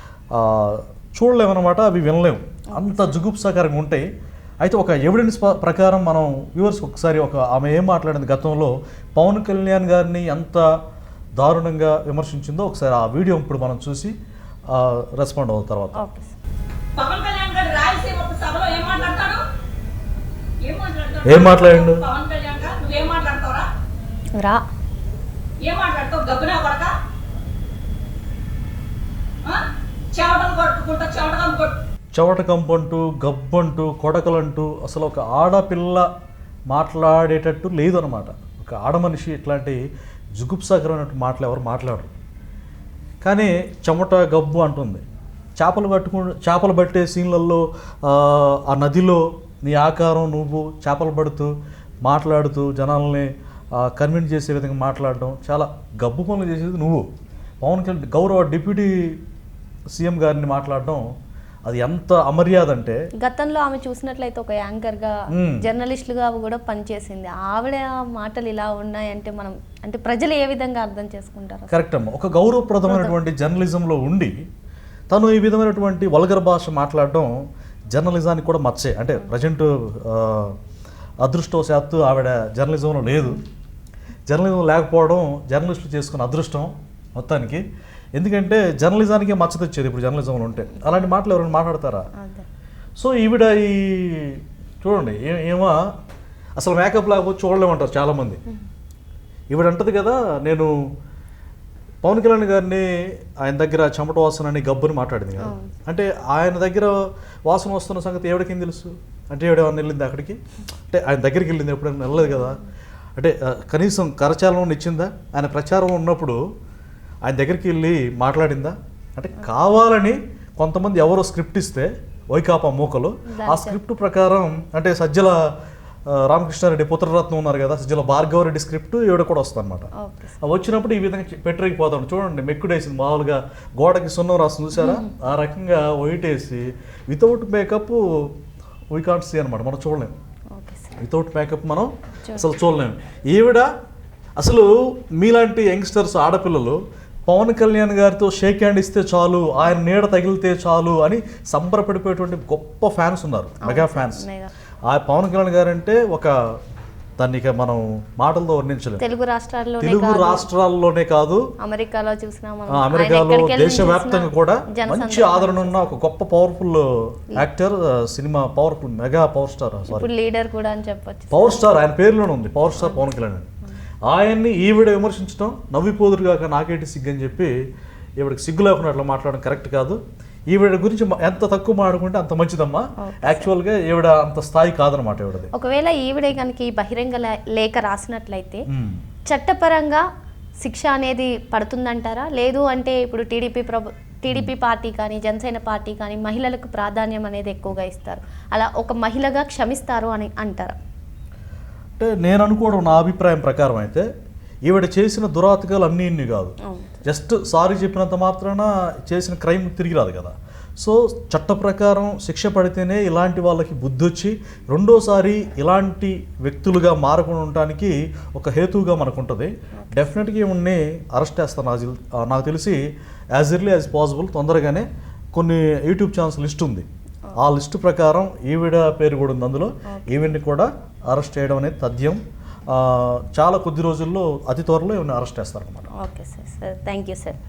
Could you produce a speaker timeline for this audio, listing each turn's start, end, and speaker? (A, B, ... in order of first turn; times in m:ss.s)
0:00.3-0:04.1 A
0:02.7-0:03.2 B
0:04.6-0:10.6 A
0:11.4-0:14.1 A
0:14.7-0:16.0 A
0:16.0-0:16.3 B
0:17.0-0:19.4 C
0:20.6-0:23.7 C
0:21.2-0:22.1 A
0:24.3-0:24.6 B
0:25.6-0:27.0 C
0:29.4-0:31.8 C
0:32.1-0:36.1 A
0:36.7-0:39.8 A
0:40.4-0:42.1 A
0:43.2-0:45.0 A
0:45.6-0:51.5 A
0:52.0-0:57.0 A
0:57.6-0:59.2 A
0:59.9-1:01.0 A
1:01.6-1:03.0 A
1:03.2-1:11.8 B
1:05.3-1:05.6 A
1:11.7-1:14.4 A
1:12.8-1:13.1 B
1:15.1-1:17.3 A
1:17.9-1:20.6 A
1:21.2-1:23.4 A
1:24.3-1:27.6 A
1:28.2-1:32.1 A
1:30.7-1:31.1 B
1:32.2-1:32.4 B
1:33.0-1:35.8 A
1:36.6-1:38.4 A
1:39.5-1:40.7 A
1:42.0-1:52.6 A
1:45.4-1:45.7 B
1:52.2-1:52.7 B
1:53.2-1:56.4 A
1:57.2-2:05.5 A
2:03.3-2:03.8 B
2:06.1-2:09.9 A
2:10.0-2:10.4 B
2:10.4-2:18.3 A
2:14.8-2:15.1 B
2:18.9-2:20.1 A
2:20.5-2:21.0 B
2:21.0-2:23.7 A
2:24.4-2:34.2 A
2:33.6-2:34.5 B
2:34.9-2:36.3 A
2:37.2-2:39.0 A
2:39.0-2:40.4 B
2:39.8-2:41.4 A
2:41.6-2:45.9 B
2:42.7-2:50.1 A
2:49.9-2:51.7 B
2:51.3-2:53.5 A
2:52.8-2:53.1 B
2:54.0-2:57.5 A
2:58.2-3:05.5 A
3:03.0-3:03.5 B
3:05.5-3:08.6 B
3:08.7-3:09.0 A
3:09.3-3:10.0 B
3:10.6-3:20.8 B
3:22.0-3:24.1 A
3:24.7-3:42.8 A
3:26.6-3:27.0 B
3:39.8-3:40.0 B
3:43.3-3:55.9 A
3:49.9-3:50.2 B
3:55.9-3:57.4 B